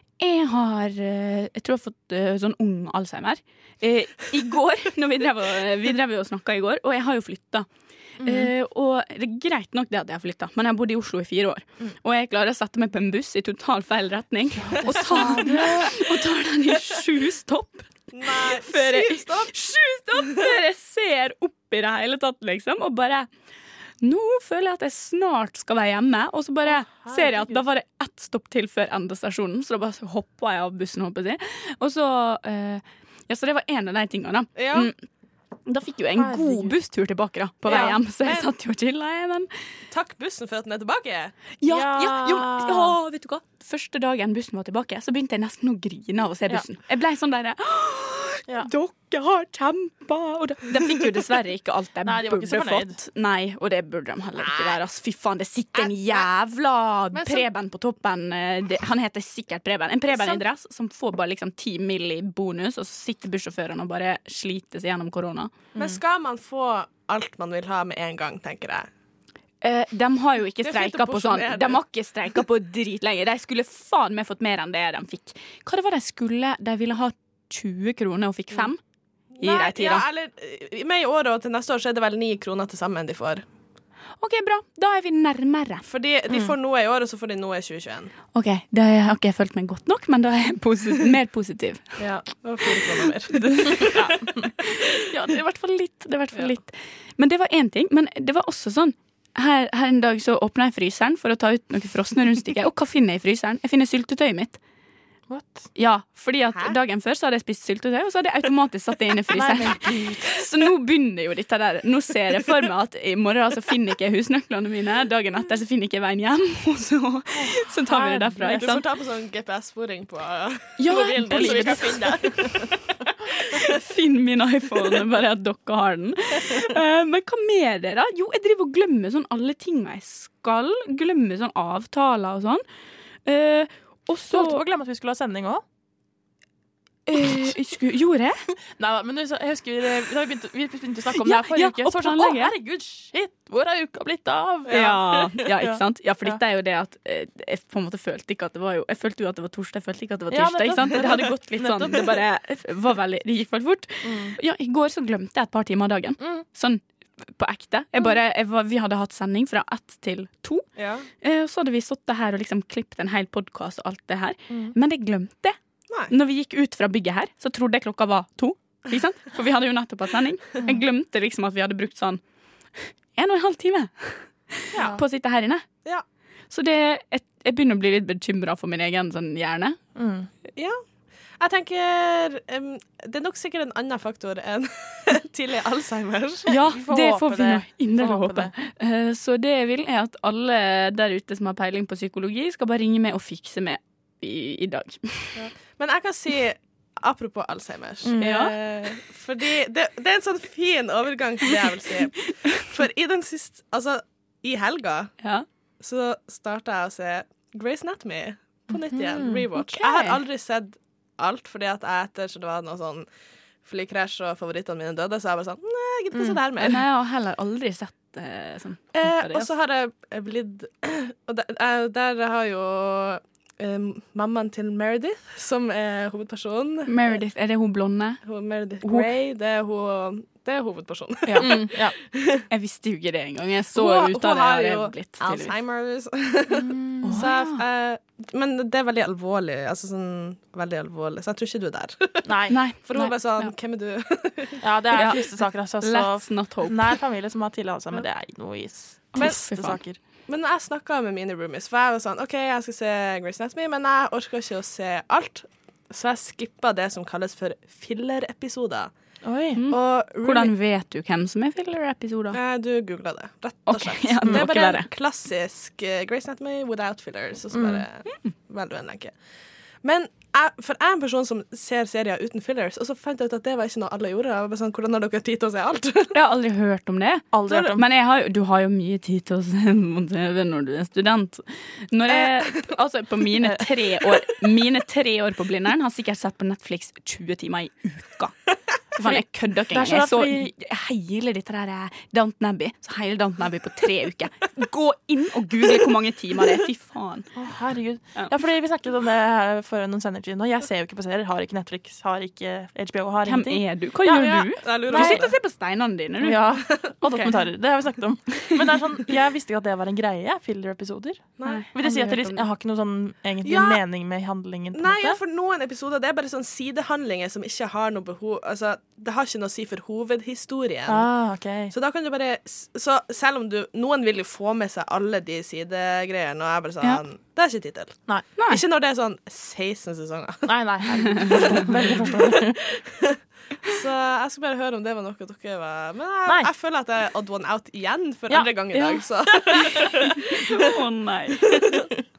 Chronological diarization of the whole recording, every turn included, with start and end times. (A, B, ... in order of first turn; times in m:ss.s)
0:00.2-0:07.7 A
0:08.2-0:08.5 B
0:08.2-0:23.3 A
0:14.9-0:16.0 B
0:18.1-0:19.5 C
0:24.0-0:35.0 A
0:26.8-0:27.6 B
0:34.6-0:34.9 C
0:35.6-0:39.5 A
0:36.1-0:36.8 B
0:37.6-0:38.0 B
0:37.7-0:38.5 C
0:39.9-0:41.3 C
0:41.6-1:05.5 A
0:41.6-0:43.0 B
0:52.0-0:53.0 B
0:55.8-0:56.3 C
0:57.1-0:57.4 C
1:05.8-1:08.9 C
1:09.6-1:18.8 A
1:10.6-1:11.8 C
1:19.4-1:23.4 C
1:19.4-1:20.0 A
1:24.2-1:25.8 A
1:25.8-1:28.1 C
1:26.3-1:26.5 B
1:28.3-1:32.0 A
1:32.0-1:34.0 C
1:32.6-1:44.6 A
1:33.9-1:34.5 B
1:45.3-1:45.7 B
1:45.8-1:58.8 A
1:49.3-1:50.4 B
1:57.3-1:58.8 B
1:58.5-2:02.7 C
2:00.8-2:02.1 A
2:00.9-2:02.6 B
2:03.5-2:12.6 A
2:13.2-2:14.6 A
2:14.3-2:15.6 B
2:17.1-2:18.4 A
2:18.7-2:26.4 B
2:21.1-2:22.5 A
2:24.7-2:40.6 A
2:30.3-2:32.2 B
2:34.0-2:34.4 B
2:36.2-2:36.4 B
2:40.8-2:41.0 C
2:41.2-2:45.6 A
2:44.5-2:44.7 B
2:46.1-2:52.2 A
2:53.2-2:55.6 A
2:54.7-2:55.0 B
2:56.5-2:59.8 A
2:59.9-3:00.3 B
3:01.4-3:06.5 C
3:06.5-3:15.4 A
3:06.7-3:08.5 B
3:15.4-3:25.1 C
3:18.0-3:18.5 B
3:18.2-3:18.5 A
3:25.8-3:33.1 C
3:28.8-3:29.4 B
3:29.6-3:30.2 A
3:33.6-3:36.8 C
3:36.1-3:36.4 B
3:36.6-3:39.5 A
3:39.0-3:47.2 C
3:46.9-3:48.2 A
3:48.2-3:52.4 C
3:48.8-3:49.1 A
3:51.3-3:51.9 B
3:51.3-3:51.7 A
3:52.5-3:55.5 A
3:53.7-4:02.3 C
3:56.5-3:57.2 B
3:57.0-3:57.6 A
4:02.2-4:02.6 B
4:02.5-4:03.5 A
4:02.8-4:04.6 C
4:04.6-4:10.0 B
4:04.9-4:05.2 A
4:05.8-4:07.0 A
4:09.1-4:09.8 A
4:10.3-4:18.9 C
4:19.2-4:19.6 B
4:19.6-4:22.4 A
4:19.7-4:20.5 C
4:22.3-4:29.1 C
4:23.7-4:24.9 A
4:27.5-4:27.8 B
4:29.8-4:36.1 C
4:36.1-4:48.3 A
4:37.3-4:37.8 B
4:48.9-4:57.3 A
4:49.0-4:50.5 B
4:57.3-5:04.2 B
5:03.2-5:06.4 A
5:04.1-5:05.3 C
5:04.8-5:05.3 B
5:06.2-5:15.2 B
5:11.4-5:11.6 C
5:11.4-5:12.4 A
5:13.4-5:13.8 C
5:14.7-5:21.1 C
5:20.8-5:21.7 B
5:21.7-5:30.5 C
5:30.4-5:32.6 B
5:31.2-5:31.6 A
5:31.3-5:32.1 C
5:33.6-5:40.5 C
5:38.3-5:40.0 B
5:40.3-5:41.8 A